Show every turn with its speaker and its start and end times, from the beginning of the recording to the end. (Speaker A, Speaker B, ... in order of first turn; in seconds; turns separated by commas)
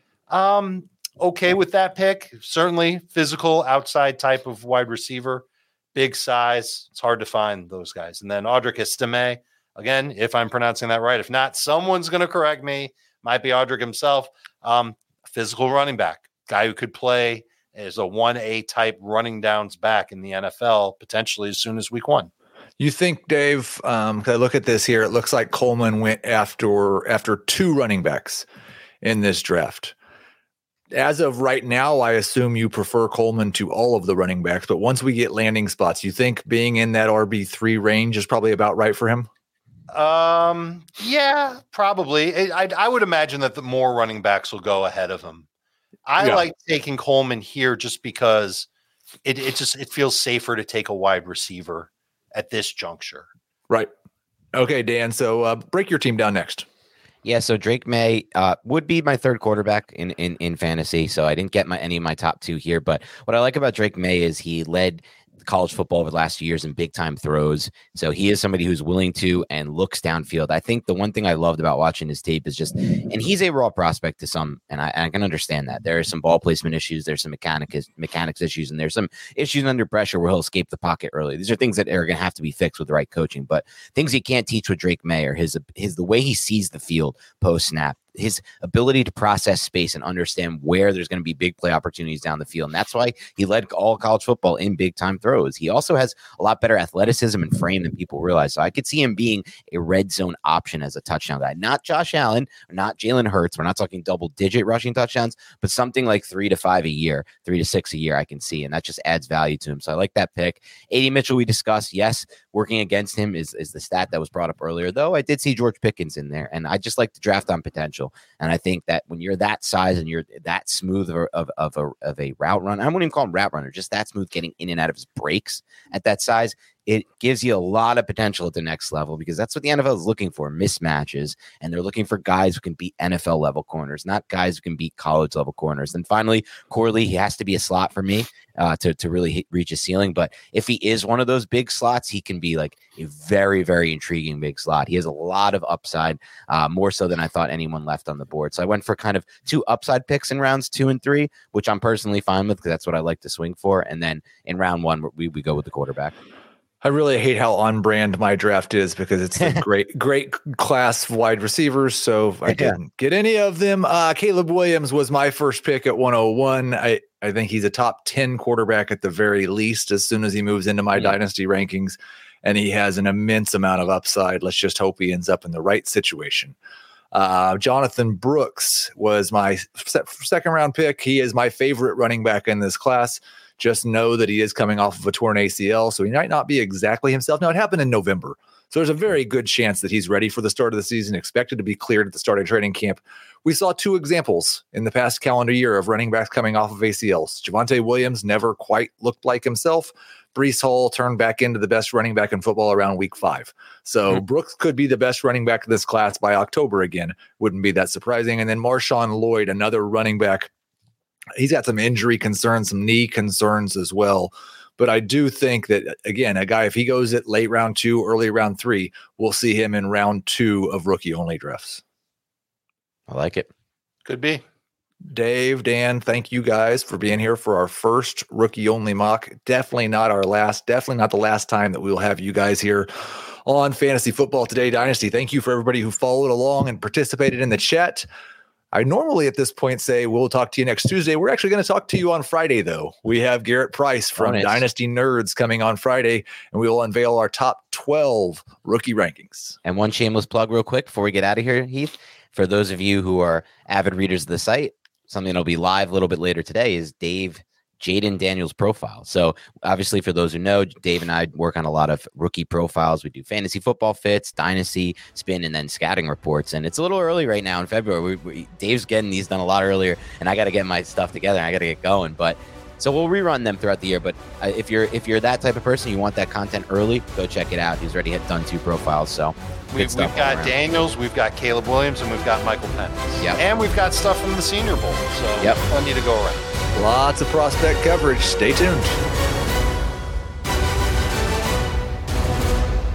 Speaker A: 0.3-22.3, Speaker B: 22.8-28.4, Speaker B: 29.0-29.9, Speaker B: 30.9-39.3, Speaker A: 39.9-45.5, Speaker A: 46.1-48.7, Speaker B: 46.2-46.4, Speaker A: 49.2-53.3, Speaker B: 54.5-56.7, Speaker C: 57.2-156.2, Speaker B: 156.8-176.6, Speaker C: 162.5-162.8, Speaker B: 177.1-210.5, Speaker B: 211.4-221.8, Speaker C: 223.1-223.5, Speaker A: 224.1-224.4, Speaker B: 225.1-238.1, Speaker B: 238.7-249.6, Speaker C: 244.2-244.6, Speaker C: 249.7-280.6, Speaker A: 279.7-286.5, Speaker B: 286.8-289.0